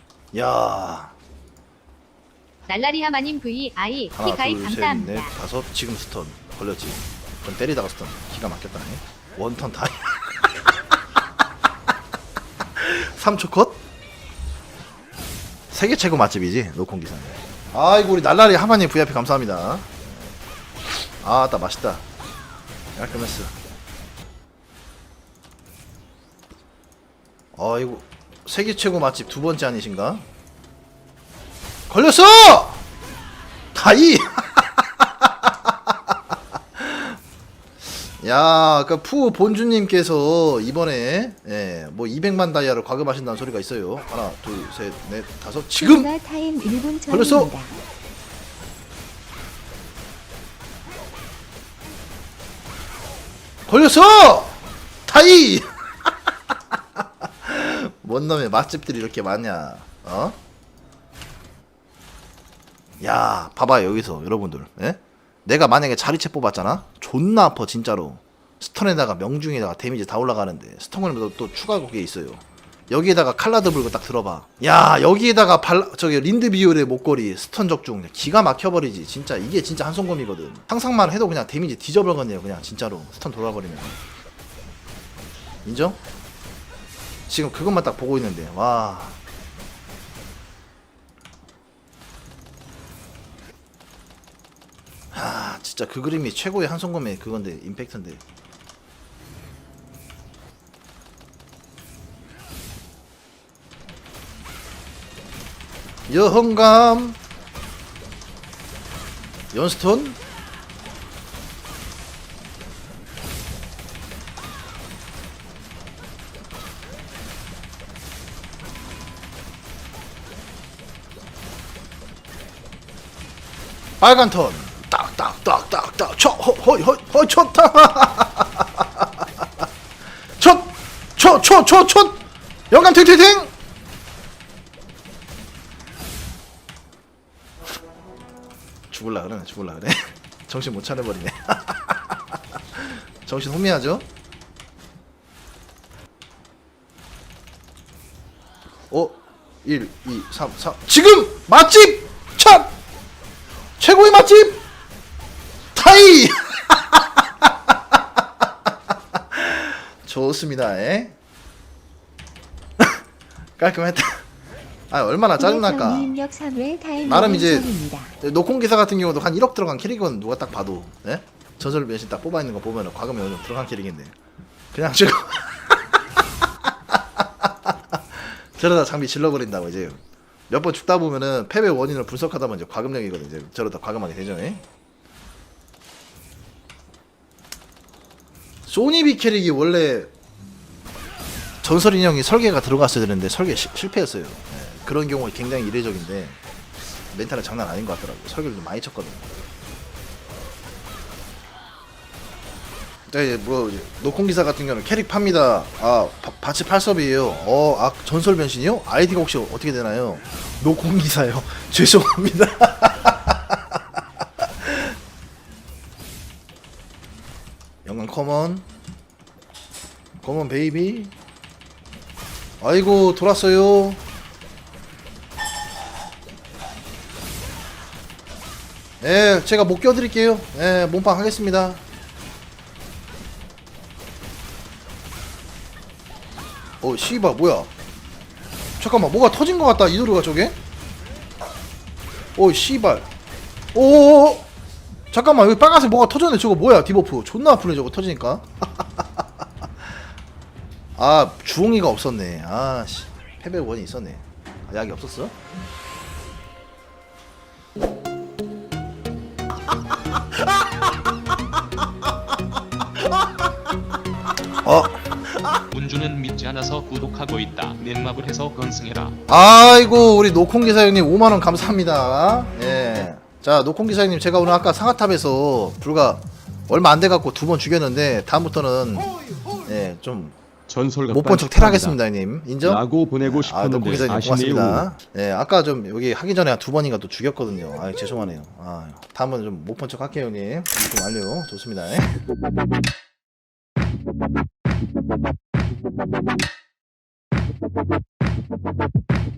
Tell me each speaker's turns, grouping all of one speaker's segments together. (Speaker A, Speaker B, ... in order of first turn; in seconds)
Speaker A: 0.3-1.1, 4.1-10.7, 12.8-13.8, 15.7-20.4, 21.2-22.0, 23.0-23.5, 27.5-30.2, 31.9-32.8, 33.7-36.1, 36.8-37.2, 38.2-46.1, 47.1-47.5, 53.7-60.4, 63.0-84.0, 85.7-86.0, 87.3-89.2, 95.1-98.2, 106.1-107.2, 109.5-110.2, 124.0-129.5, 130.4-132.2, 132.7-133.5, 138.9-144.1, 148.9-152.7, 153.8-154.6, 155.8-158.0, 159.1-161.2, 163.6-164.2, 164.9-166.2, 167.1-174.2, 174.7-184.6, 188.7-190.1, 191.6-196.4, 197.1-199.3, 203.1-214.9, 217.8-218.7, 220.2-221.1, 222.6-224.0, 229.0-231.8, 236.8-237.7, 238.8-240.6, 242.3-243.1, 243.7-244.5, 245.1-249.9, 251.0-255.3, 264.6-265.6, 269.3-279.1, 279.6-280.4, 281.1-292.2
Speaker B: 2.7-5.3
Speaker C: 45.8-47.8, 165.3-168.1
Speaker D: 265.7-269.1
Speaker E: 280.7-282.0, 282.6-284.9